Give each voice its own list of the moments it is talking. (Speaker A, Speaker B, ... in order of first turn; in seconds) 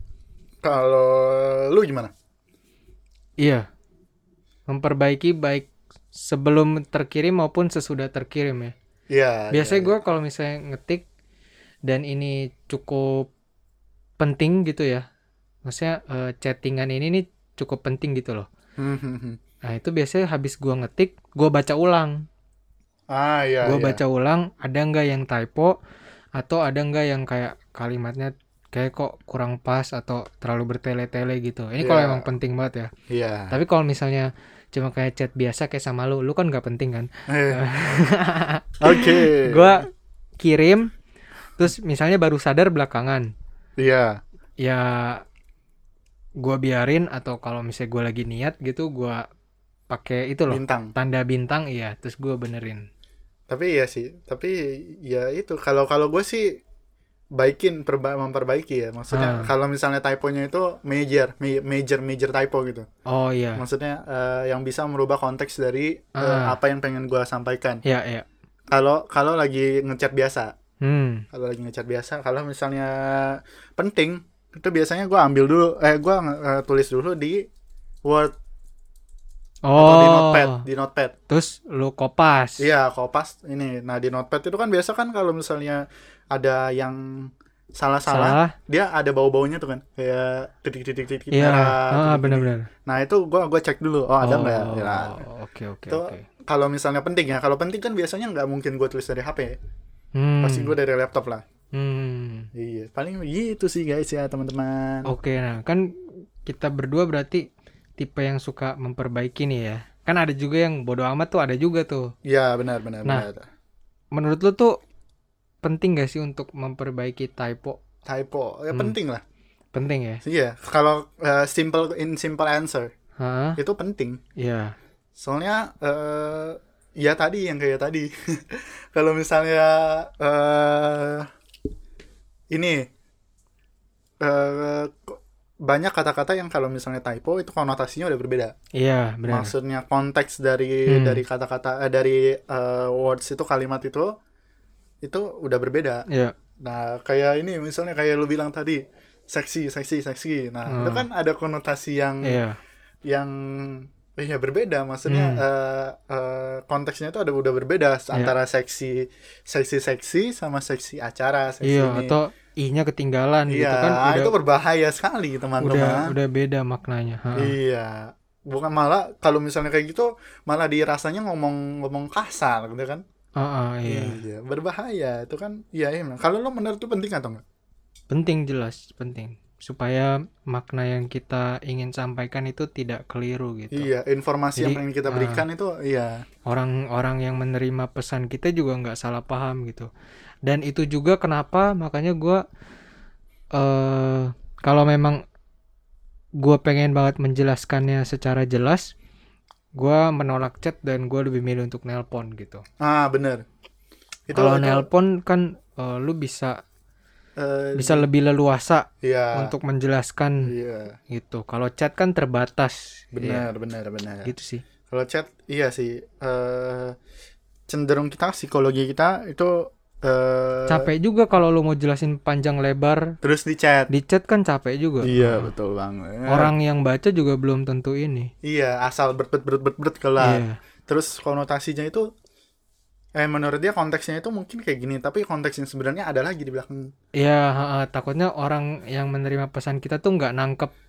Speaker A: 0.6-2.1, 9.1-10.0, 18.8-19.4, 23.1-24.0, 31.8-32.3, 33.1-33.6, 37.3-37.6, 38.8-39.8, 43.8-44.2, 50.5-50.9, 53.5-56.6, 57.4-62.9, 63.6-67.8, 68.7-70.5, 71.3-77.5, 78.0-78.3, 79.8-81.1, 82.6-95.2, 95.9-99.6, 100.4-101.4, 102.5-105.1, 112.2-113.5, 118.1-119.2, 120.2-122.9, 123.6-124.2, 125.2-131.3, 132.5-132.9, 134.2-138.5, 139.3-144.1, 145.0-146.1, 146.6-152.4, 153.1-162.2, 163.5-166.1, 167.4-173.0, 173.8-177.4, 183.7-186.2, 202.8-203.4, 204.3-204.9, 207.4-208.1, 209.0-209.6, 210.4-211.0, 213.2-214.3, 214.9-217.0, 217.7-220.9, 223.2-223.9, 225.0-226.5, 228.4-232.1, 233.2-236.9
Speaker B: 3.4-3.7, 4.7-8.7, 9.5-11.1, 11.9-13.3, 14.2-15.1, 15.7-18.5, 19.7-22.2, 23.6-25.8, 26.4-32.9, 33.5-39.9, 40.4-40.9, 41.6-43.3, 44.6-45.2, 46.4-49.2, 49.9-52.9, 59.1-59.5, 63.1-63.6, 66.2-66.5, 67.8-68.3, 70.8-71.2, 79.7-80.7, 81.3-82.7, 88.1-88.5, 91.3-92.7, 94.2-96.3, 100.2-100.8, 101.7-102.5, 105.1-105.8, 106.5-107.5, 108.0-112.1, 114.1-114.8, 115.6-117.8, 119.7-120.2, 123.2-123.6, 124.4-124.8, 138.8-139.5, 140.9-141.2, 146.1-146.3, 150.7-151.1, 152.2-152.6, 155.1-155.4, 161.6-164.3, 165.6-167.6, 173.4-174.2, 178.1-183.9, 184.6-185.4, 186.5-189.9, 190.4-192.4, 193.5-195.2, 196.4-198.9, 199.8-202.6, 204.3-206.6, 207.8-210.5, 211.1-213.5, 214.2-214.6, 220.7-223.2, 223.9-225.5, 226.3-228.3, 230.2-230.6, 237.2-240.7